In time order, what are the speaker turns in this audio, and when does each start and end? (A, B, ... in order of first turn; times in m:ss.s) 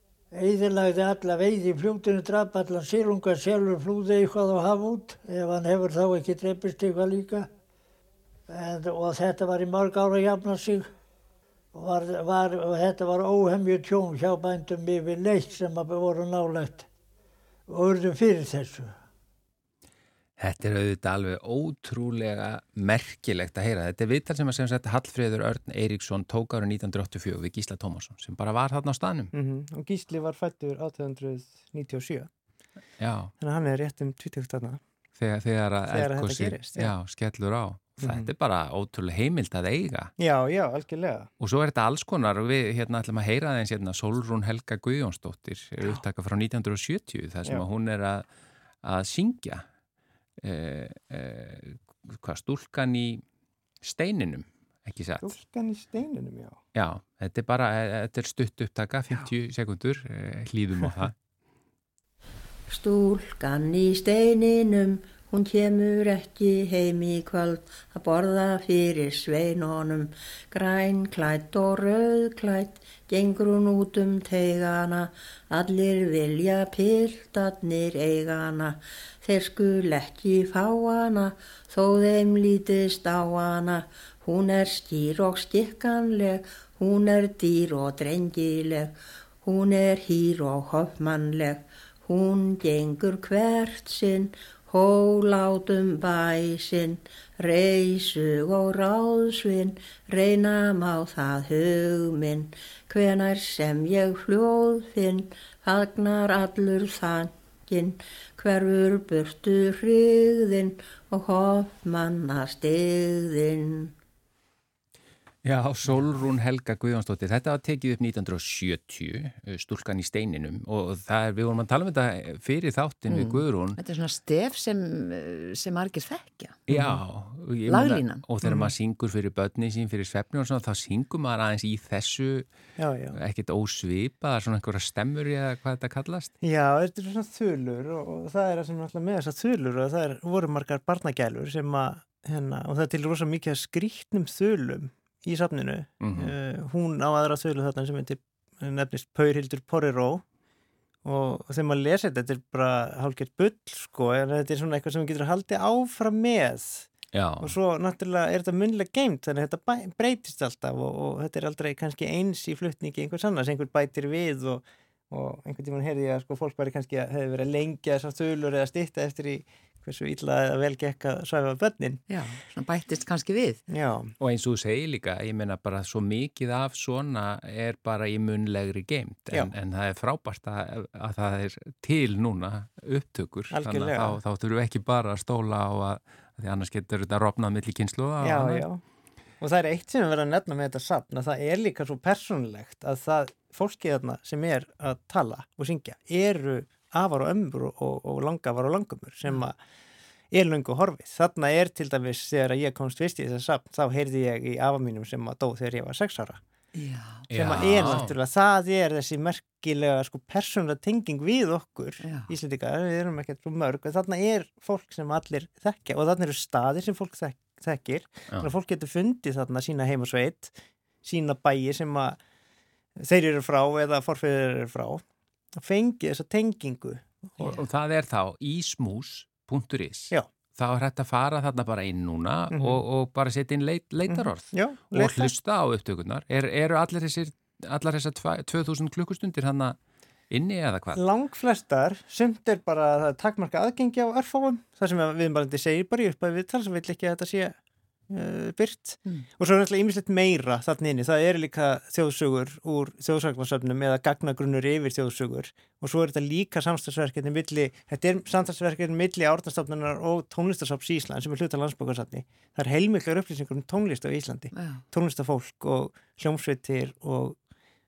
0:00.3-0:07.5 A
0:08.5-0:10.9 A
0:11.7-0:16.9 A
0:17.7-0:18.9 A
0:20.4-0:29.3 B
0:29.3-0:32.3 C
0:33.0-0:33.3 B
0:33.4-0:34.8 C
0:35.2-0:40.1 B
0:35.9-0:36.9 C
0:38.0-0:38.3 C
0:40.2-0:41.3 C
0:41.4-0:48.3 B
0:48.8-0:49.6 B
0:50.4-0:53.2 B
0:53.8-0:55.3 B
0:55.2-0:56.6 C
0:56.8-1:01.1 B
1:02.7-1:54.0 D
1:55.4-2:03.8 B
2:03.1-2:06.6 E
2:06.7-2:12.5 B
2:06.7-2:07.0 C
2:07.7-2:08.2 E
2:08.4-2:08.7 C
2:12.8-2:13.2 C
2:13.1-2:16.3 B
2:16.4-2:30.2 C
2:26.0-2:26.3 B
2:31.0-2:36.9 C
2:37.1-2:37.6 B
2:37.4-2:52.0 C
2:52.1-2:53.6 E
2:53.7-2:54.1 C
2:54.2-3:08.7 B
3:03.5-3:04.2 C
3:08.2-3:08.8 C
3:09.4-3:19.6 C
3:20.3-3:26.4 C
3:26.8-3:27.3 E
3:27.3-3:28.1 B
3:27.3-3:42.2 C
3:32.0-3:32.3 E
3:43.0-3:45.0 C
3:45.6-3:47.6 C
3:47.4-3:59.8 B
3:52.5-3:52.8 C
3:54.1-3:55.3 C
4:00.3-4:01.0 B
4:01.0-4:07.6 C
4:08.1-4:27.4 C
4:24.5-4:24.8 E